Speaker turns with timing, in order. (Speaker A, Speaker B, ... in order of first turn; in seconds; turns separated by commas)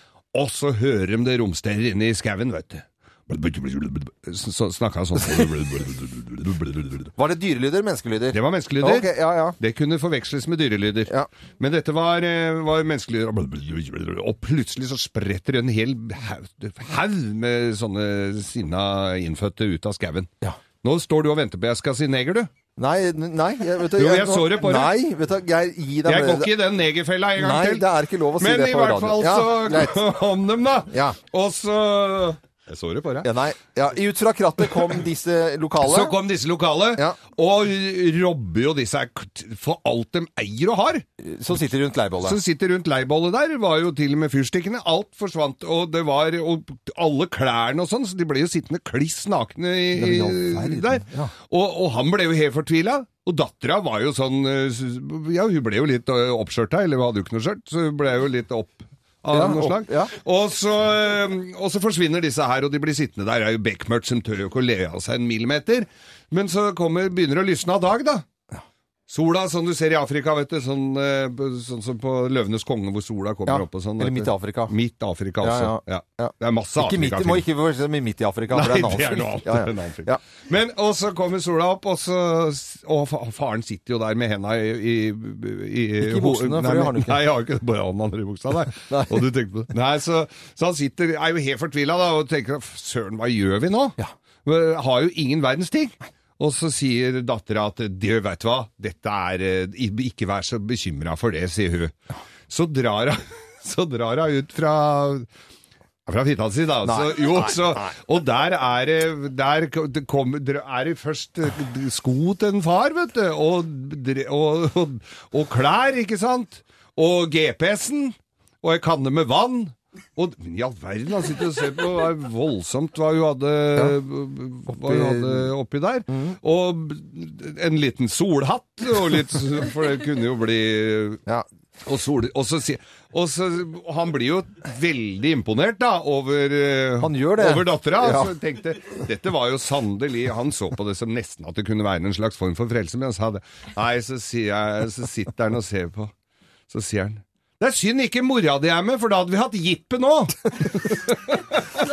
Speaker A: 0.3-7.1, Speaker B: 7.2-9.6, Speaker A: 8.3-20.3, Speaker A: 20.8-22.5, Speaker B: 22.8-26.5, Speaker A: 23.9-25.0, Speaker A: 26.1-33.3, Speaker B: 27.4-30.0, Speaker B: 30.9-31.2, Speaker B: 33.2-36.2, Speaker A: 35.8-41.0, Speaker B: 41.2-42.4, Speaker A: 42.2-68.2, Speaker B: 49.9-51.3, Speaker B: 59.3-60.1, Speaker A: 69.1-77.5, Speaker B: 73.5-74.7, Speaker B: 75.4-80.2, Speaker A: 78.5-102.0, Speaker B: 86.0-87.2, Speaker B: 88.9-89.3, Speaker A: 102.5-105.3, Speaker A: 106.1-131.2, Speaker B: 106.8-107.8, Speaker B: 124.7-125.5, Speaker A: 131.8-146.1, Speaker B: 137.0-138.3, Speaker A: 146.7-151.8